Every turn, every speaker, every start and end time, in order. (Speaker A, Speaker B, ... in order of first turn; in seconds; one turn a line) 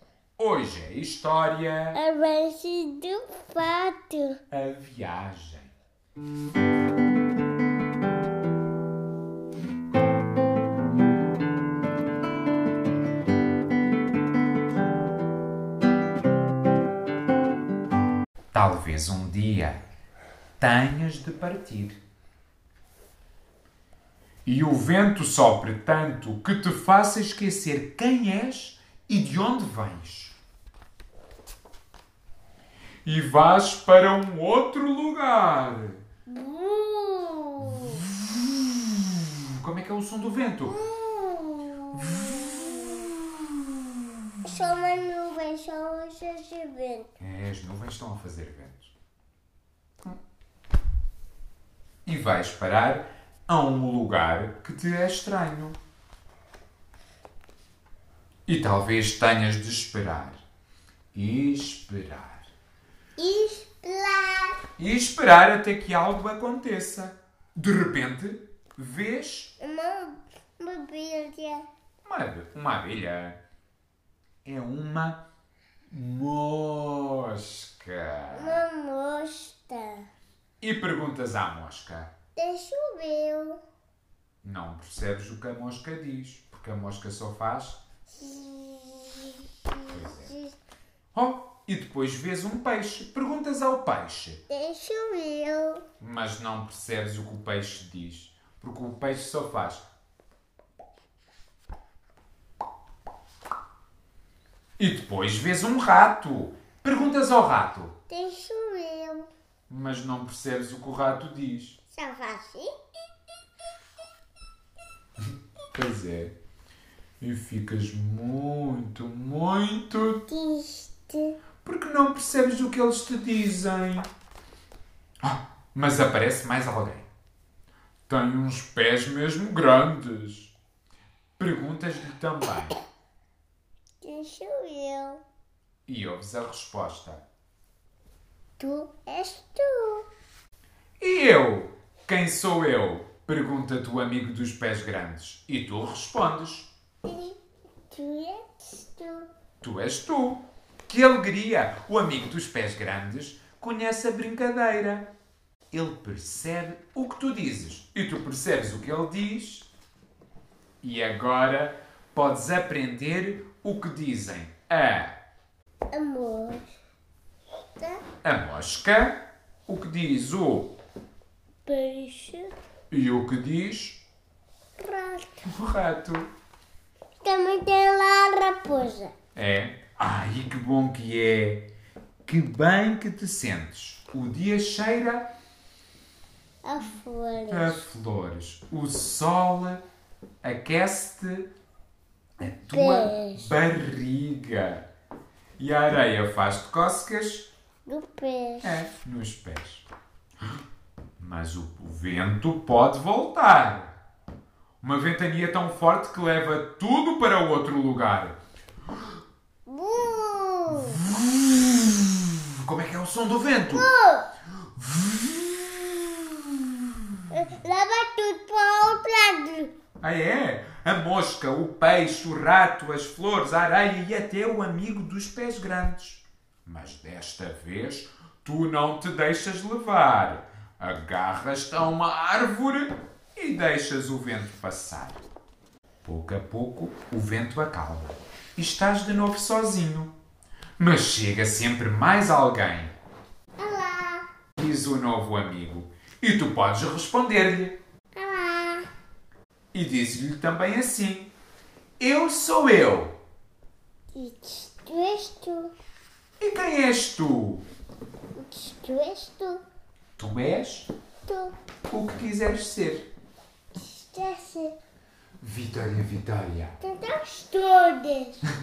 Speaker A: 0.4-2.0
Speaker B: 1.9-4.4
Speaker A: 4.5-5.7
Speaker A: 18.5-19.8
Speaker A: 20.6-22.0
Speaker A: 24.4-30.4
Speaker A: 33.0-36.0
Speaker B: 36.3-38.0
Speaker A: 38.1-40.8
Speaker B: 40.7-43.1
Speaker A: 42.0-44.3
Speaker B: 44.4-47.1
Speaker A: 47.2-48.9
Speaker A: 52.0-55.8
Speaker A: 58.5-60.4
Speaker A: 61.1-62.5
Speaker B: 63.2-64.6
Speaker A: 64.8-69.5
Speaker B: 69.6-71.7
Speaker A: 72.0-73.4
Speaker A: 74.4-75.2
Speaker A: 75.9-78.6
Speaker B: 78.3-80.1
Speaker A: 80.6-82.1
Speaker B: 82.3-83.6
Speaker A: 84.4-87.8
Speaker B: 88.1-90.6
Speaker A: 89.9-90.3
Speaker A: 91.1-94.4
Speaker B: 94.5-95.8
Speaker A: 96.0-99.8
Speaker A: 104.8-107.9
Speaker B: 108.1-109.3
Speaker A: 109.7-111.8
Speaker B: 111.9-112.7
Speaker A: 115.2-116.3
Speaker A: 117.2-120.2
Speaker B: 120.3-121.4
Speaker A: 121.6-124.1
Speaker A: 125.2-127.1
Speaker A: 128.1-130.5
Speaker A: 131.4-132.8
Speaker B: 134.0-135.2
Speaker A: 135.9-137.2
Speaker B: 138.6-140.1
Speaker A: 141.0-146.7
Speaker B: 147.0-149.3
Speaker A: 149.6-155.1
Speaker A: 155.7-159.7
Speaker A: 160.8-165.2
Speaker B: 165.9-166.7
Speaker A: 168.2-170.7
Speaker B: 171.7-172.5
Speaker A: 172.9-174.0
Speaker B: 174.8-175.4
Speaker A: 175.4-176.3
Speaker B: 177.2-179.1
Speaker A: 179.3-181.7
Speaker A: 182.2-185.3
Speaker B: 186.6-187.8
Speaker A: 187.5-189.8
Speaker A: 190.4-191.5
Speaker A: 192.4-194.8
Speaker B: 192.7-193.5
Speaker A: 195.6-197.5
Speaker B: 197.8-198.8
Speaker A: 198.6-199.8
Speaker A: 201.2-203.9
Speaker A: 204.8-208.4
Speaker B: 209.7-211.0
Speaker A: 210.7-213.9
Speaker B: 213.7-214.3
Speaker A: 214.7-217.2
Speaker B: 217.3-219.7
Speaker A: 220.0-235.2
Speaker A: 236.0-240.1
Speaker A: 240.8-243.0
Speaker B: 243.6-244.2
Speaker A: 244.6-247.8
Speaker B: 248.1-248.9
Speaker A: 249.7-251.3
Speaker A: 252.0-253.2
Speaker B: 254.1-255.7
Speaker A: 256.4-257.6
Speaker B: 258.4-259.6
Speaker A: 260.2-260.9
Speaker B: 261.2-261.5
Speaker A: 261.9-263.1
Speaker B: 263.7-264.8
Speaker A: 265.4-266.8
Speaker B: 266.8-268.4